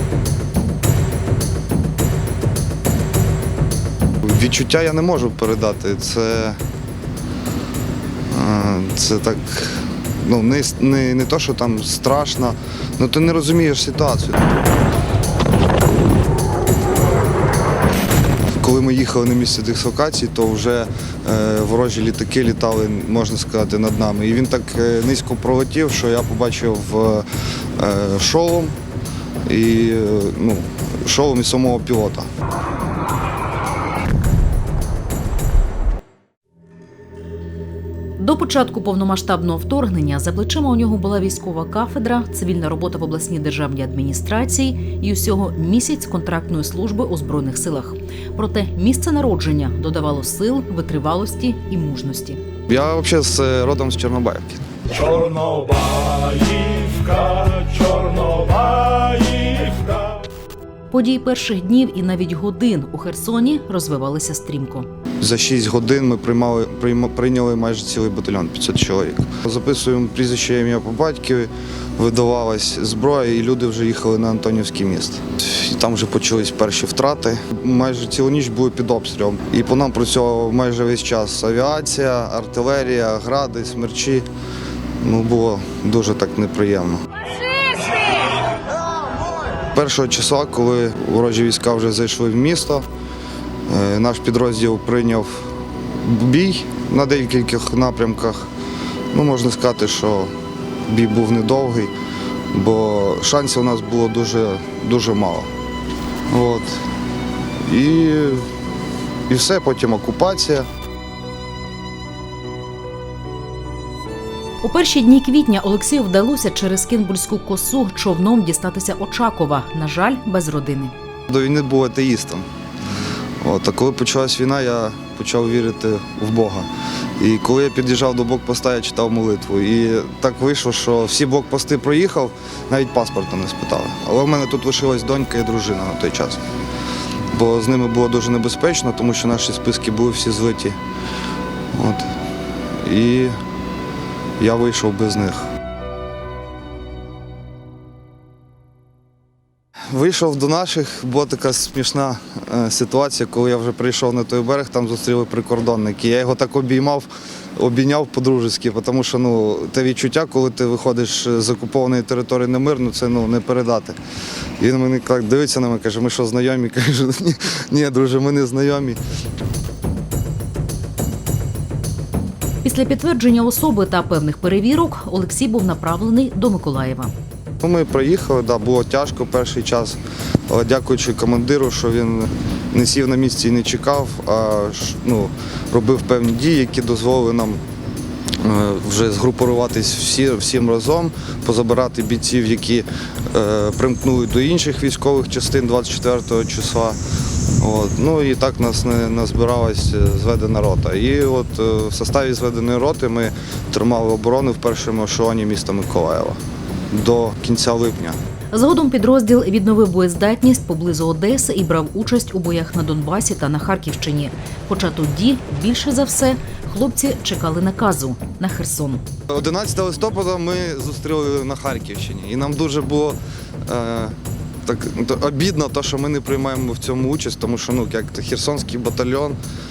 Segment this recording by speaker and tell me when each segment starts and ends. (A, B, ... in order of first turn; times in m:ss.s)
0:04.2-0:06.6 A
0:08.3-0:14.5 A
0:18.5-0:28.7 A
0:29.4-0:32.3 A
0:38.2-0:52.4 B
0:52.7-0:54.9 A
0:55.0-1:00.2 C
1:00.9-1:04.9 B
1:05.2-1:24.3 A
1:25.0-1:27.0 A
1:29.7-1:32.8 A
1:33.7-1:35.4 A
1:36.0-1:38.5 A
1:39.1-1:40.3 A
1:40.8-1:41.9 A
1:42.5-1:45.5 A
1:46.3-1:46.7 A
1:47.6-1:48.5 A
1:49.3-1:50.6 A
1:54.6-2:00.9 B
2:01.3-2:02.4 A
2:03.4-2:06.7 A
2:07.2-2:16.4 A
2:17.3-2:20.8 A
2:21.7-2:22.1 A
2:22.8-2:23.3 A
2:24.4-2:25.4 A
2:29.9-2:44.0 A
2:44.6-2:49.0 A
2:52.6-2:57.1 B
2:57.6-3:00.0 A
3:00.5-3:07.6 A
3:08.4-3:17.0 A
3:17.6-3:26.4 A
3:26.9-3:28.2 A
3:28.5-3:39.0 B
3:39.3-3:43.2 A
3:43.7-3:49.4 A